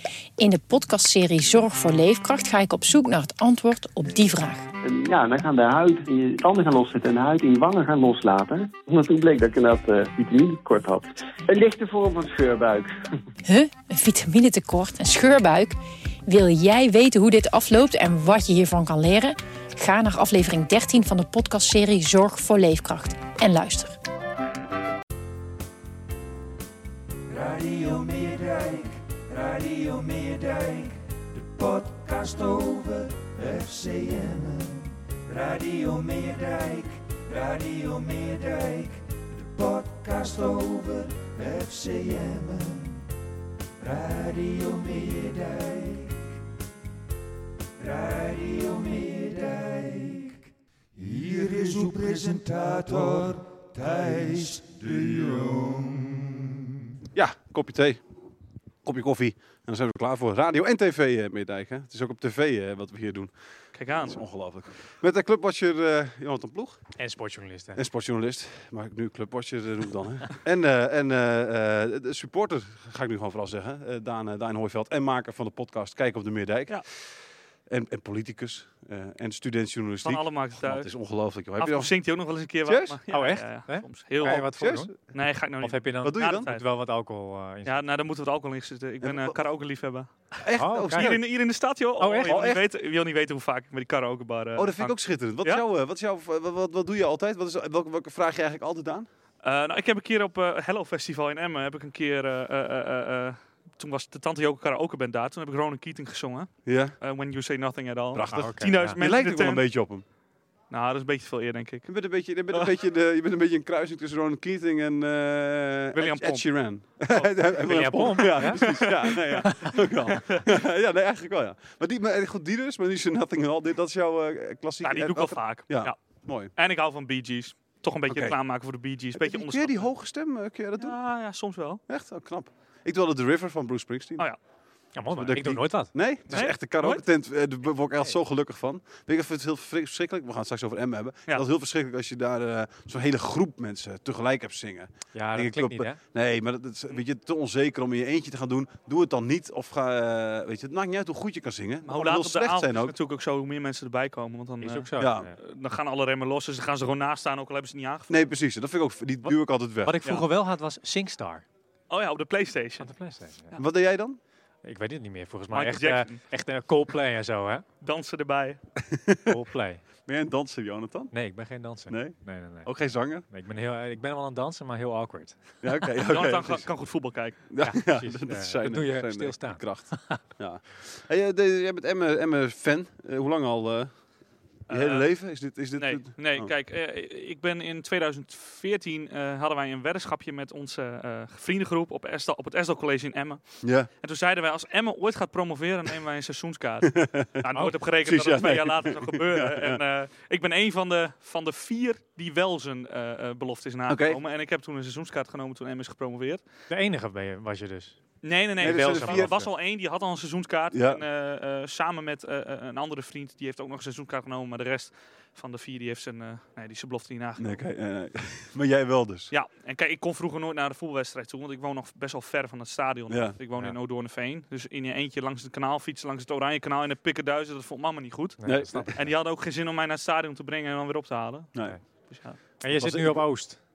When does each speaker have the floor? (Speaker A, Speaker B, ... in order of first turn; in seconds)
Speaker A: 0.4-4.7, 13.4-23.9
Speaker B: 4.8-12.9
Speaker C: 27.3-43.0, 43.8-46.2, 47.8-50.4, 51.0-56.5
Speaker D: 57.1-58.0, 58.8-63.3, 63.9-66.8, 67.8-82.0, 82.7-83.0, 84.2-84.9, 86.0-86.5, 89.0-89.4, 90.4-91.2, 92.3-92.6, 94.5-99.1, 106.6-106.9, 108.1-110.0, 111.9-126.5, 128.1-128.4, 129.1-131.0, 131.9-134.3, 135.1-152.9, 155.0-155.3, 158.1-160.0, 163.6-164.2, 168.8-169.4, 170.1-171.1, 171.9-173.2, 175.6-176.7, 177.5-183.9, 184.7-186.5, 193.6-193.9, 196.8-199.8, 203.9-204.2, 208.6-209.4, 210.7-211.0, 217.4-219.3, 223.1-223.3, 228.4-229.0, 232.6-233.2
Speaker E: 63.7-64.2, 80.0-80.9, 81.6-86.7, 87.6-95.6, 99.4-109.7, 110.7-112.7, 115.9-120.5, 124.8-129.9, 130.8-131.8, 136.3-137.0, 151.8-158.2, 161.9-162.9, 165.5-166.2, 167.8-168.6, 176.0-177.5, 184.7-206.4, 208.2-217.6, 219.3-232.4
Speaker F: 67.0-67.8, 83.1-87.8, 90.5-91.1, 92.0-92.4, 108.3-109.0, 117.6-118.8, 134.9-135.9, 145.1-146.0, 154.6-155.3, 159.2-161.4, 162.8-163.6, 164.6-167.6, 169.3-169.8, 171.1-175.6, 177.6-180.2, 206.7-208.0, 208.6-209.5, 228.4-228.9, 232.6-233.6